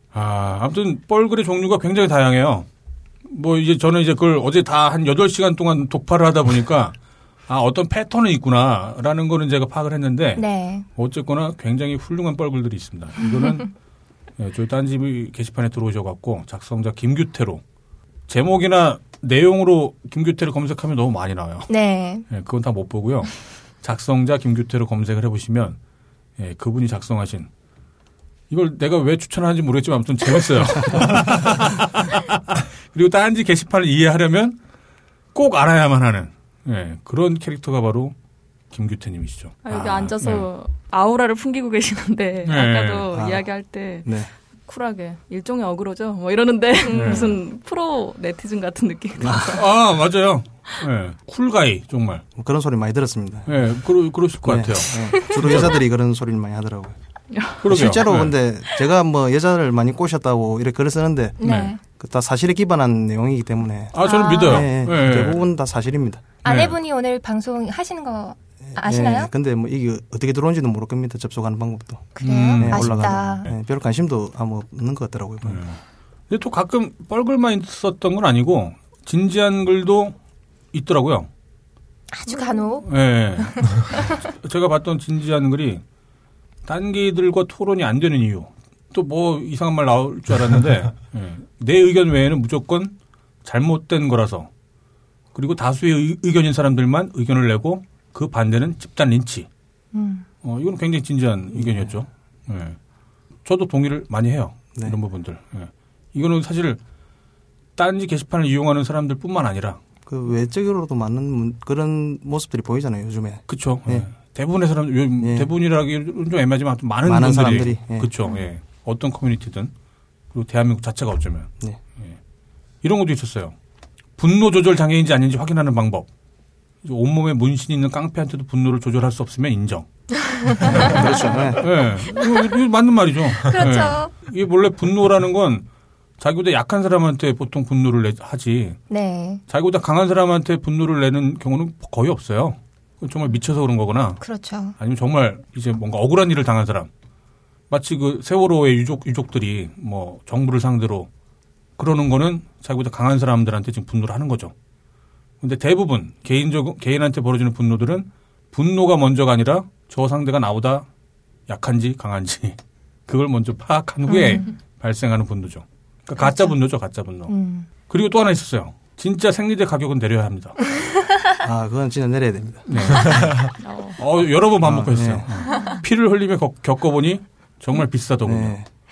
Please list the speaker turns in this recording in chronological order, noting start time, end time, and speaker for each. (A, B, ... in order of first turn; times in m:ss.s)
0:00.1-0:02.7 A
0:03.3-0:07.0 A
0:07.5-0:13.7 A
0:10.4-0:10.9 B
0:14.4-0:17.6 A
0:18.3-0:21.7 A
0:21.7-0:22.3 B
0:22.3-0:25.8 A
0:26.4-0:27.5 A
0:28.5-0:34.6 A
0:35.3-0:38.2 A
0:38.7-0:40.5 A
0:39.6-0:49.7 C
0:42.4-0:43.1 A
0:43.1-0:43.5 D
0:44.0-0:44.3 D
0:46.9-0:47.3 B
0:46.9-0:47.4 A
0:49.2-0:49.6 D
0:49.5-0:52.2 A
0:52.4-0:53.5 D
0:53.5-0:55.8 A
0:54.4-0:57.0 D
0:55.1-0:55.6 B
0:57.3-0:57.7 C
0:57.6-0:58.4 A
0:57.6-1:01.4 D
1:01.4-1:01.8 B
1:01.4-1:01.7 A
1:01.9-1:06.4 D
1:03.9-1:05.5 A
1:04.0-1:04.7 B
1:06.4-1:06.8 A
1:06.4-1:09.3 B
1:08.7-1:15.6 D
1:12.2-1:13.5 B
1:12.2-1:13.5 A
1:15.4-1:20.2 A
1:20.7-1:21.3 A
1:22.1-1:24.1 B
1:22.8-1:25.8 A
1:26.6-1:34.5 A
1:35.3-1:39.5 A
1:39.9-1:40.3 B
1:40.4-1:42.8 A
1:41.6-1:41.9 D
1:43.4-1:46.8 A
1:47.8-1:49.8 A
1:50.1-1:54.1 D
1:53.5-1:59.7 A
1:55.2-1:55.5 D
1:57.0-1:58.1 D
2:00.3-2:02.2 A
2:02.8-2:03.5 A
2:04.2-2:06.1 A
2:06.8-2:09.9 A
2:10.3-2:10.9 B
2:10.7-2:11.0 A
2:10.7-2:11.7 D
2:11.6-2:15.7 A
2:13.4-2:14.1 B
2:16.2-2:18.8 A
2:18.9-2:19.4 B
2:19.5-2:24.2 A
2:24.2-2:24.8 B
2:24.8-2:26.9 A
2:27.7-2:31.1 A
2:31.8-2:34.5 A
2:35.4-2:40.9 A
2:41.5-2:47.3 A
2:44.1-2:44.5 B
2:46.2-2:46.6 B
2:47.3-2:47.7 B
2:47.9-2:50.6 A
2:51.4-2:52.6 D
2:52.7-2:58.6 A
2:53.6-2:54.0 C
2:54.6-2:55.3 D
2:55.4-2:55.8 C
2:58.2-2:58.7 D